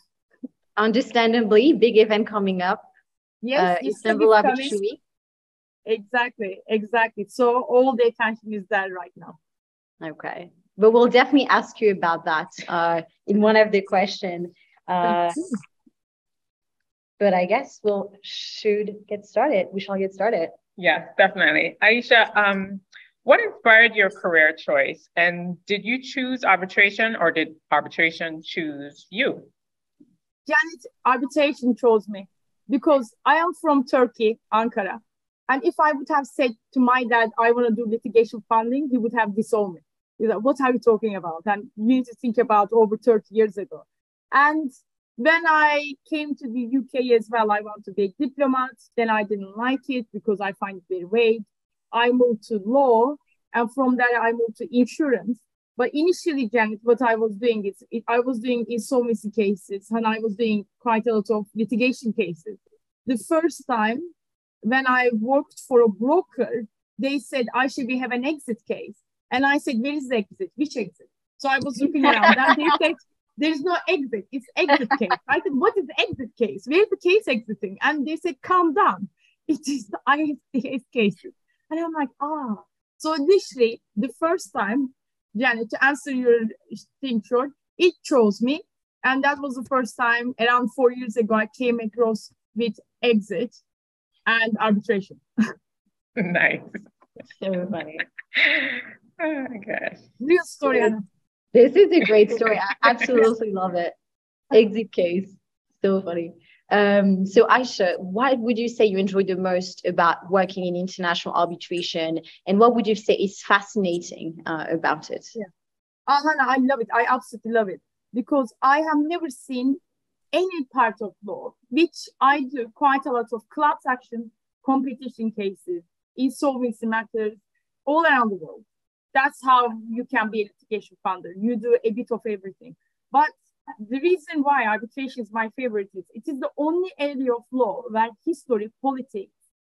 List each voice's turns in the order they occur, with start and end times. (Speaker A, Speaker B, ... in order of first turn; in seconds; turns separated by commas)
Speaker A: 0.8-2.9, Speaker B: 3.4-4.8, Speaker A: 3.5-5.0, Speaker B: 5.8-9.4, Speaker A: 10.0-15.4, Speaker A: 17.2-20.6, Speaker C: 20.8-29.5, Speaker B: 30.5-64.1, Speaker B: 64.6-93.5, Speaker A: 72.1-72.6, Speaker B: 94.2-95.2, Speaker C: 96.2-96.8, Speaker A: 97.4-98.0, Speaker C: 98.3-100.0, Speaker B: 100.2-101.0, Speaker A: 101.5-103.9, Speaker A: 104.5-115.3, Speaker B: 116.1-119.8, Speaker B: 120.3-139.3